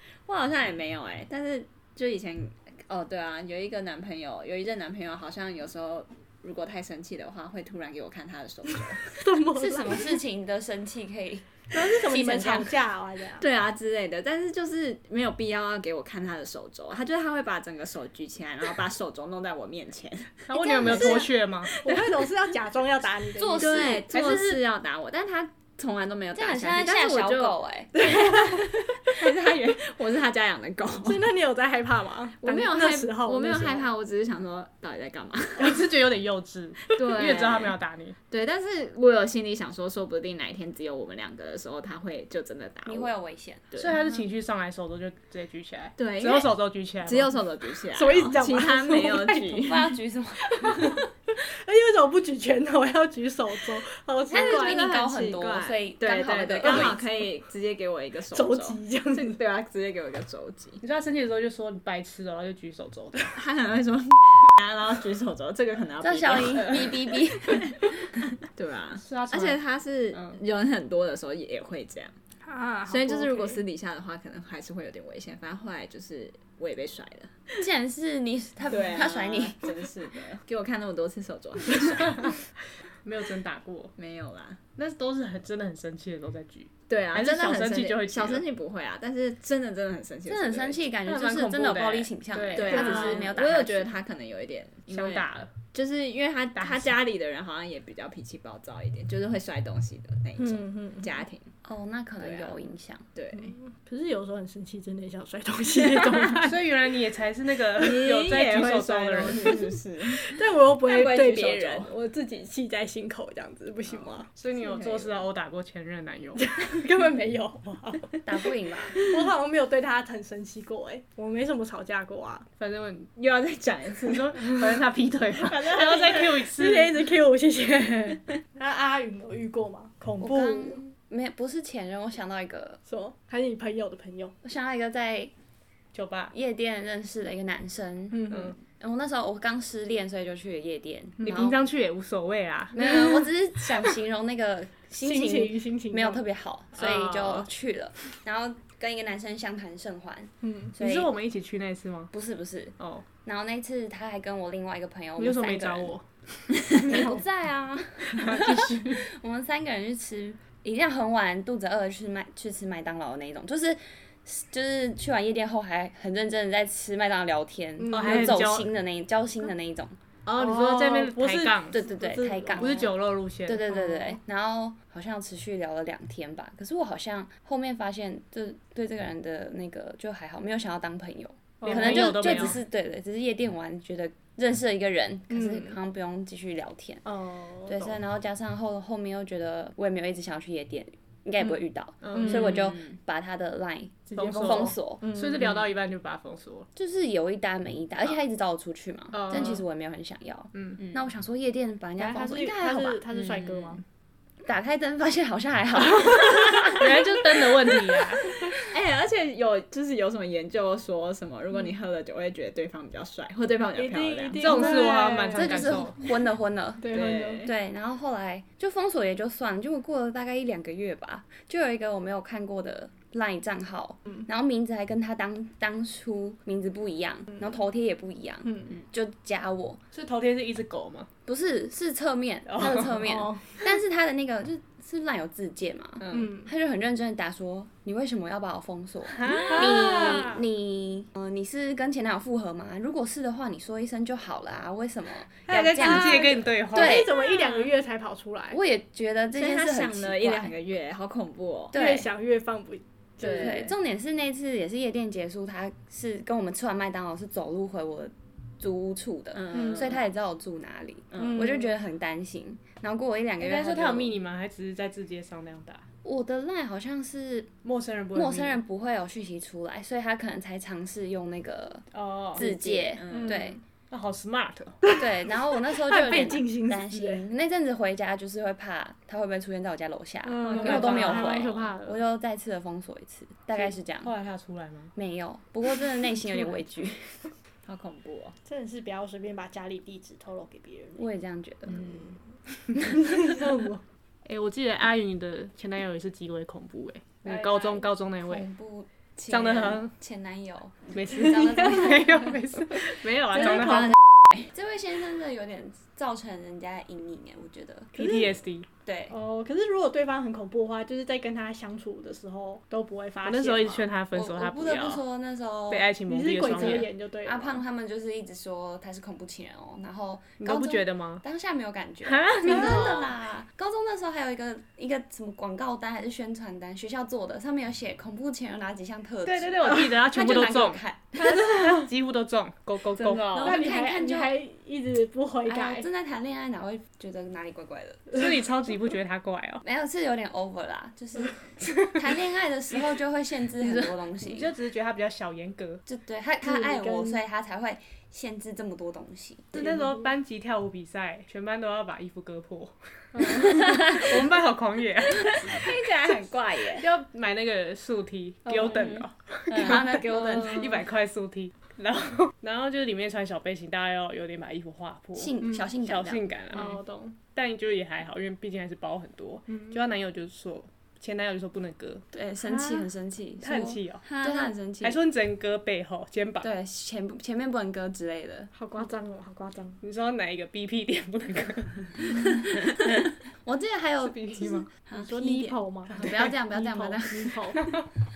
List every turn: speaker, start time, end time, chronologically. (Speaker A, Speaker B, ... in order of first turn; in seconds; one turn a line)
Speaker A: 0.3-9.1
Speaker B: 9.2-10.2
Speaker C: 9.6-12.8
Speaker B: 11.7-13.4
Speaker A: 13.4-22.3
Speaker D: 20.5-21.7
Speaker C: 20.5-21.3
Speaker B: 21.8-24.0
Speaker C: 23.4-24.2
Speaker A: 23.6-31.3
Speaker D: 24.1-24.5
Speaker C: 26.3-27.9
Speaker B: 31.0-33.9
Speaker A: 32.4-35.8
Speaker D: 35.6-38.2
Speaker A: 36.9-37.8
Speaker A: 38.3-43.1
Speaker C: 42.9-43.7
Speaker A: 43.7-44.0
Speaker D: 43.8-47.4
Speaker A: 46.0-46.5
Speaker A: 47.0-49.9
Speaker B: 47.9-49.9
Speaker C: 49.6-51.0
Speaker B: 50.5-54.8
Speaker C: 54.3-57.0
Speaker A: 54.3-60.8
Speaker B: 58.3-59.4
Speaker D: 60.8-63.4
Speaker A: 63.3-67.8
Speaker C: 66.0-68.1
Speaker A: 68.4-72.1
Speaker D: 69.0-70.4
Speaker B: 72.4-73.6
Speaker A: 72.9-77.6
Speaker C: 77.6-79.7
Speaker A: 78.7-82.4
Speaker D: 83.0-83.9
Speaker A: 84.0-84.6
Speaker D: 84.8-88.4
Speaker A: 86.9-90.8
Speaker C: 90.3-93.9
Speaker D: 91.0-93.2
Speaker A: 92.5-101.5
Speaker B: 92.7-93.2
Speaker D: 94.9-95.5
Speaker D: 96.6-96.9
Speaker B: 100.4-101.1
Speaker C: 101.7-103.0
Speaker A: 102.2-102.6
Speaker A: 103.2-103.5
Speaker B: 103.3-106.6
Speaker A: 105.8-106.2
Speaker D: 106.4-109.7
Speaker A: 107.8-111.9
Speaker B: 109.2-114.3
Speaker A: 113.9-115.2
Speaker D: 114.4-116.5
Speaker B: 116.4-122.5
Speaker C: 118.2-119.0
Speaker D: 122.6-123.1
Speaker A: 123.2-124.8
Speaker D: 124.0-127.0
Speaker A: 125.4-126.3
Speaker B: 125.7-130.8
Speaker C: 130.2-132.8
Speaker B: 132.9-134.3
Speaker C: 134.4-135.3
Speaker D: 135.9-136.3
Speaker C: 136.3-141.6
Speaker B: 138.1-138.5
Speaker D: 138.3-138.6
Speaker D: 141.2-143.2
Speaker C: 142.8-151.1
Speaker B: 145.0-146.2
Speaker D: 146.8-147.5
Speaker B: 150.4-150.8
Speaker D: 150.8-152.1
Speaker C: 152.1-155.9
Speaker D: 152.8-153.1
Speaker D: 155.2-157.2
Speaker C: 156.8-170.0
Speaker B: 156.9-157.2
Speaker D: 158.2-159.0
Speaker B: 158.2-159.0
Speaker B: 167.8-168.5
Speaker D: 167.9-168.7
Speaker D: 170.3-171.8
Speaker B: 170.3-172.9
Speaker C: 171.7-172.9
Speaker D: 172.5-173.6
Speaker C: 173.4-187.1
Speaker B: 173.7-174.2
Speaker B: 181.6-182.6
Speaker D: 181.6-182.6
Speaker B: 185.3-185.8
Speaker D: 187.4-187.9
Speaker C: 187.7-195.1
Speaker D: 192.0-192.6
Speaker B: 192.1-192.6
Speaker A: 192.3-193.0
Speaker D: 194.1-196.7
Speaker B: 194.2-195.6
Speaker C: 196.8-203.0
Speaker D: 199.1-199.6
Speaker D: 200.5-200.8
Speaker B: 202.0-203.8
Speaker A: 203.2-203.8
Speaker C: 204.4-207.1
Speaker D: 206.8-208.3
Speaker A: 208.5-214.8
Speaker B: 213.8-215.8
Speaker D: 214.3-216.0
Speaker C: 215.3-216.9
Speaker B: 216.8-217.5
Speaker A: 216.9-217.5
Speaker C: 217.4-229.8
Speaker B: 228.4-228.8
Speaker D: 229.9-231.1
Speaker C: 231.3-247.1
Speaker D: 232.5-232.9
Speaker B: 232.9-233.7
Speaker D: 236.0-236.3
Speaker B: 236.1-236.5
Speaker D: 239.1-240.4
Speaker D: 245.5-247.2
Speaker B: 245.8-248.6
Speaker C: 248.5-250.5
Speaker A: 249.3-251.8
Speaker C: 251.7-252.1
Speaker B: 251.7-253.7
Speaker A: 253.2-253.7
Speaker C: 253.2-264.1
Speaker A: 259.3-260.0
Speaker B: 259.5-260.0
Speaker A: 261.1-261.4
Speaker B: 261.2-261.8
Speaker D: 263.4-265.9
Speaker C: 266.0-267.5
Speaker D: 267.6-268.6
Speaker C: 268.1-273.6
Speaker D: 271.9-272.5
Speaker A: 272.4-273.4
Speaker B: 273.1-273.6
Speaker D: 273.9-274.8
Speaker B: 274.9-277.2
Speaker C: 274.9-284.1
Speaker B: 280.2-282.0
Speaker D: 280.4-281.6
Speaker D: 283.6-284.9
Speaker C: 284.9-287.3
Speaker A: 287.7-288.4
Speaker B: 288.4-291.0
Speaker C: 291.0-292.1
Speaker B: 292.9-293.8
Speaker D: 294.2-298.5
Speaker B: 297.3-297.8
Speaker C: 298.2-302.2
Speaker D: 299.3-299.9
Speaker D: 300.9-304.0
Speaker B: 303.4-303.8
Speaker A: 303.6-303.9
Speaker C: 304.5-307.9
Speaker D: 307.9-308.7
Speaker B: 308.0-308.3
Speaker C: 308.9-309.1
Speaker B: 309.1-313.9
Speaker D: 313.2-315.0
Speaker C: 314.1-315.9
Speaker D: 315.7-316.9
Speaker B: 316.1-317.6
Speaker C: 316.4-331.5
Speaker D: 320.4-321.2
Speaker D: 322.0-322.9
Speaker B: 322.5-323.0
Speaker A: 322.6-323.0
Speaker D: 329.2-333.3
Speaker A: 332.9-333.6
Speaker C: 333.4-334.4
Speaker B: 333.4-335.9
Speaker C: 335.5-338.1
Speaker D: 338.1-339.6
Speaker C: 339.6-344.5
Speaker D: 343.6-345.8
Speaker C: 345.9-349.6
Speaker B: 346.4-347.2
Speaker D: 349.5-355.9
Speaker B: 349.6-350.1
Speaker B: 353.1-353.6
Speaker A: 353.5-354.1
Speaker A: 355.3-356.9
Speaker D: 356.8-366.8
Speaker B: 358.5-359.0
Speaker A: 358.7-359.9
Speaker C: 359.5-360.8
Speaker C: 365.2-366.3
Speaker B: 366.5-367.2
Speaker D: 367.3-372.1
Speaker B: 369.5-369.8
Speaker C: 372.1-375.0
Speaker B: 372.5-372.9
Speaker D: 373.4-374.1
Speaker A: 374.1-374.6
Speaker D: 374.8-376.5
Speaker C: 376.4-378.5
Speaker B: 378.5-379.8
Speaker D: 379.8-382.2
Speaker C: 383.4-387.6
Speaker D: 384.0-384.7
Speaker B: 384.9-387.7
Speaker D: 385.9-386.3
Speaker D: 387.6-387.9